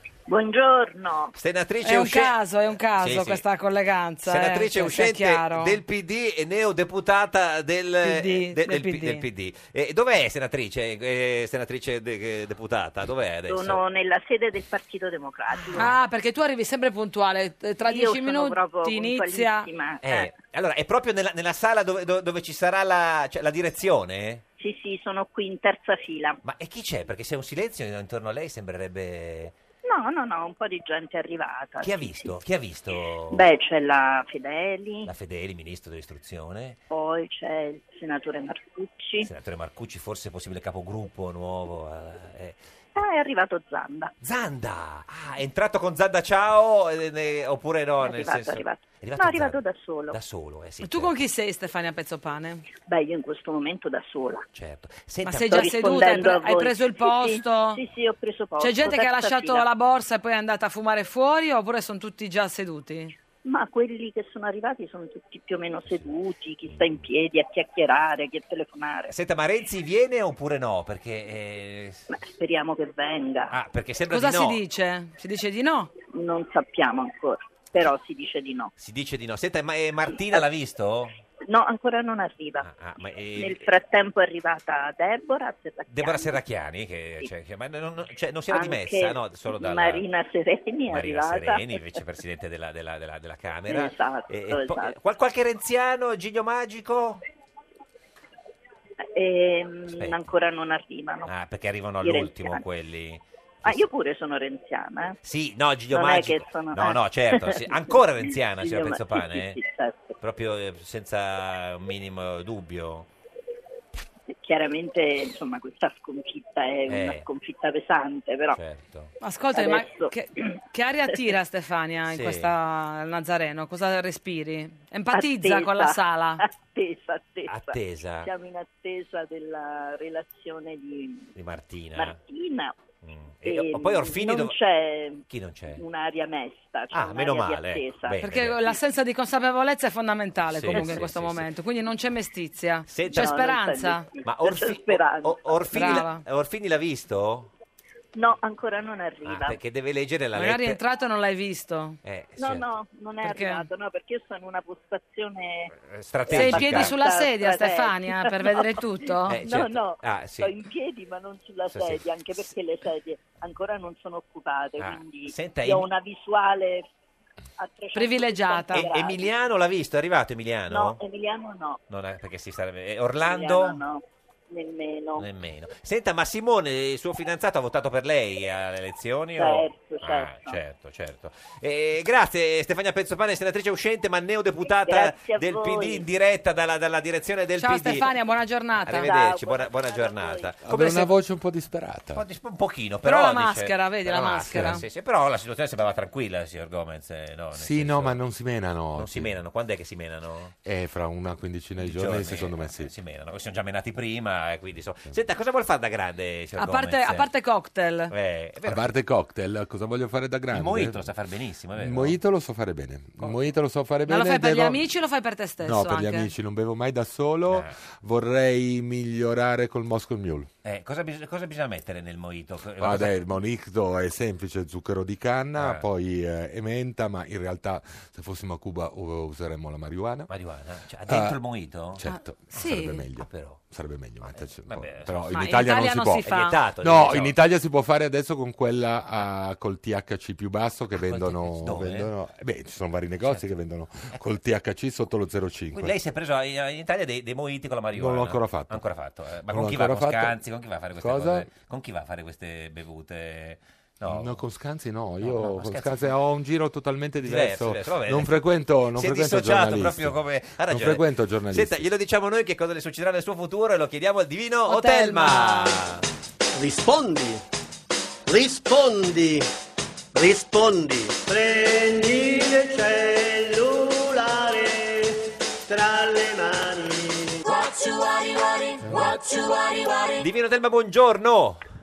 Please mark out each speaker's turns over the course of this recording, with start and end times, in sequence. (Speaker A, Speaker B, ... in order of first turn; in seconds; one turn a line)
Speaker A: 0.3-1.3
Speaker B: 1.4-3.4
Speaker C: 1.8-5.7
Speaker B: 4.2-13.8
Speaker C: 8.0-9.2
Speaker A: 13.5-15.9
Speaker C: 15.8-19.7
Speaker A: 17.8-20.3
Speaker B: 20.0-24.4
Speaker A: 24.6-26.4
Speaker B: 26.4-29.5
Speaker A: 29.8-32.3
Speaker B: 31.8-33.4
Speaker A: 33.3-35.1
Speaker B: 35.0-36.8
Speaker A: 36.9-39.3
Speaker B: 39.2-42.6
Speaker A: 43.0-44.1
Speaker B: 44.2-51.1
Speaker A: 48.0-50.2
Speaker C: 50.8-52.6
Speaker A: 52.9-54.5
Speaker B: 54.5-56.0
Speaker C: 55.2-57.8
Speaker A: 55.5-59.6
Speaker C: 58.6-63.1
Speaker A: 63.4-69.1
Speaker B: 66.7-67.1
Speaker B: 69.1-72.1
Speaker A: 72.1-73.5
Speaker B: 73.5-74.6
Speaker C: 74.1-75.9
Speaker A: 76.1-78.7
Speaker B: 78.8-81.2
Speaker A: 80.1-80.4
Speaker A: 81.4-82.7
Speaker B: 82.6-83.7
Speaker A: 83.4-86.4
Speaker B: 85.9-90.0
Speaker A: 88.5-92.0
Speaker B: 90.9-97.2
Speaker A: 93.7-94.9
Speaker A: 99.1-101.3
Speaker B: 100.0-100.3
Speaker B: 101.3-103.9
Speaker A: 102.0-102.6
Speaker A: 103.6-105.2
Speaker B: 105.2-109.6
Speaker A: 105.9-110.2
Speaker B: 110.2-113.1
Speaker A: 114.3-118.6
Speaker B: 116.9-117.3
Speaker B: 118.5-119.1
Speaker C: 119.2-126.4
Speaker A: 119.5-120.4
Speaker B: 122.1-122.5
Speaker A: 125.1-131.3
Speaker B: 127.5-128.3
Speaker B: 131.3-132.2
Speaker A: 131.9-132.8
Speaker B: 133.0-134.6
Speaker A: 133.4-138.7
Speaker B: 135.3-135.8
Speaker B: 136.9-138.7
Speaker C: 138.2-144.1
Speaker B: 140.5-141.5
Speaker A: 140.8-141.0
Speaker B: 142.9-143.3
Speaker A: 143.1-146.0
Speaker B: 144.2-147.5
Speaker C: 145.7-146.2
Speaker A: 148.2-149.6
Speaker B: 149.2-150.8
Speaker C: 150.3-152.0
Speaker B: 152.0-152.7
Speaker A: 152.4-155.7
Speaker C: 153.2-153.7
Speaker B: 155.8-156.9
Speaker A: 156.2-158.8
Speaker C: 156.3-159.4
Speaker B: 159.3-160.5
Speaker A: 159.4-166.8
Speaker B: 161.7-162.4
Speaker B: 164.8-165.9
Speaker A: 167.6-169.4
Speaker C: 167.9-168.9
Speaker B: 168.7-171.0
Speaker A: 170.7-171.8
Speaker B: 171.9-173.8
Speaker A: 173.2-175.2
Speaker B: 175.2-188.1
Speaker A: 179.4-180.6
Speaker A: 184.7-186.0
Speaker C: 187.6-189.1
Speaker B: 188.8-191.1
Speaker A: 188.9-190.6
Speaker D: 190.6-192.2
Speaker B: 192.1-198.2
Speaker C: 193.0-194.8
Speaker D: 197.5-199.3
Speaker B: 198.9-200.5
Speaker D: 200.6-202.9
Speaker B: 201.8-207.3
Speaker C: 206.6-208.1
Speaker B: 208.1-208.9
Speaker D: 208.6-211.1
Speaker B: 210.5-212.2
Speaker D: 211.7-214.8
Speaker B: 213.2-213.5
Speaker C: 214.1-216.3
Speaker D: 215.6-220.5
Speaker B: 217.5-217.7
Speaker B: 220.6-223.1
Speaker D: 222.8-230.3
Speaker B: 225.6-225.8
Speaker B: 230.3-232.0
Speaker D: 231.1-231.4
Speaker D: 231.9-245.9
Speaker C: 232.1-233.0
Speaker B: 233.2-233.6
Speaker B: 234.2-235.5
Speaker C: 235.3-236.5
Speaker B: 236.2-237.4
Speaker B: 241.0-242.1
Speaker B: 245.7-254.3
Speaker D: 247.9-248.8
Speaker D: 249.5-250.4
Speaker D: 251.0-251.5
Speaker D: 254.1-261.8
Speaker B: 255.2-256.1
Speaker B: 257.2-266.0
Speaker C: 264.7-265.8
Speaker E: 266.5-267.4
Speaker E: 268.3-269.4
Speaker E: 270.1-275.1
Speaker E: 275.7-277.4
Speaker F: 277.5-280.0
Speaker B: 280.2-281.6